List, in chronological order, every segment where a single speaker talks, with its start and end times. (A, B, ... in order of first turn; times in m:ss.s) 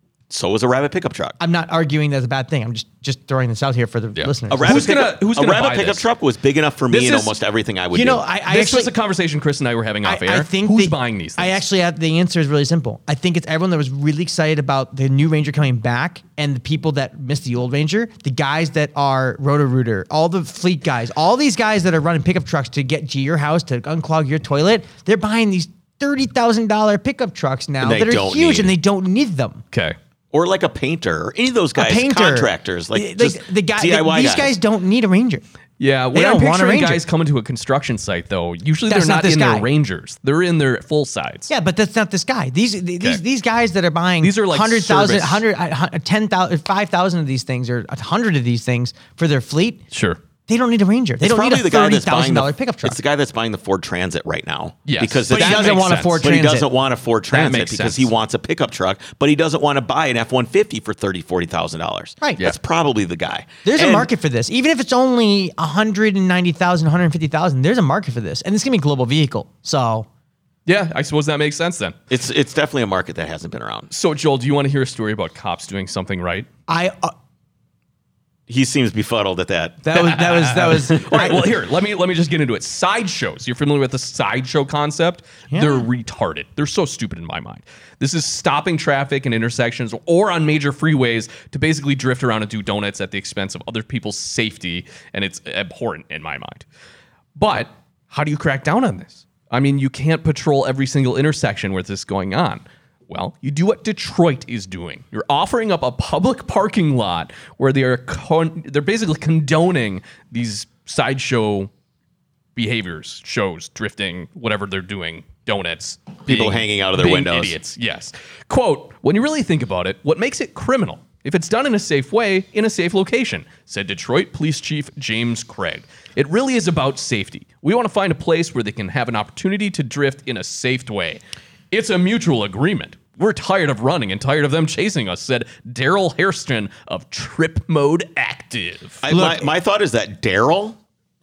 0:00.3-0:01.4 A
0:01.4-0:04.9 B
0:04.2-0:06.0 C
0:04.5-0:08.2 A
0:06.9-0:07.4 C
0:07.9-0:08.9 B
0:08.5-0:11.6 C
0:10.0-0:29.6 B
0:27.8-0:28.8 A
0:30.3-0:34.6 A
0:31.8-0:35.4 B
0:35.8-0:41.5 C
0:36.1-0:37.0 B
0:38.9-0:39.7 B
0:41.5-0:49.8 B
0:44.2-0:45.4 C
0:49.9-0:50.2 C
0:50.5-0:53.0 B
0:51.2-1:04.1 A
0:54.9-0:56.3 C
0:55.3-0:56.7 B
0:57.3-0:58.1 C
1:02.2-1:02.5 B
1:03.6-1:10.1 B
1:10.7-1:12.0 C
1:12.1-1:13.9 A
1:13.9-1:16.5 C
1:16.7-1:17.1 B
1:18.5-1:20.0 A
1:19.8-1:21.5 B
1:20.0-1:36.6 C
1:25.5-1:25.8 B
1:37.4-1:51.7 C
1:52.6-2:19.0 C
1:56.3-1:57.6 A
2:19.0-2:20.8 A
2:19.1-2:19.5 B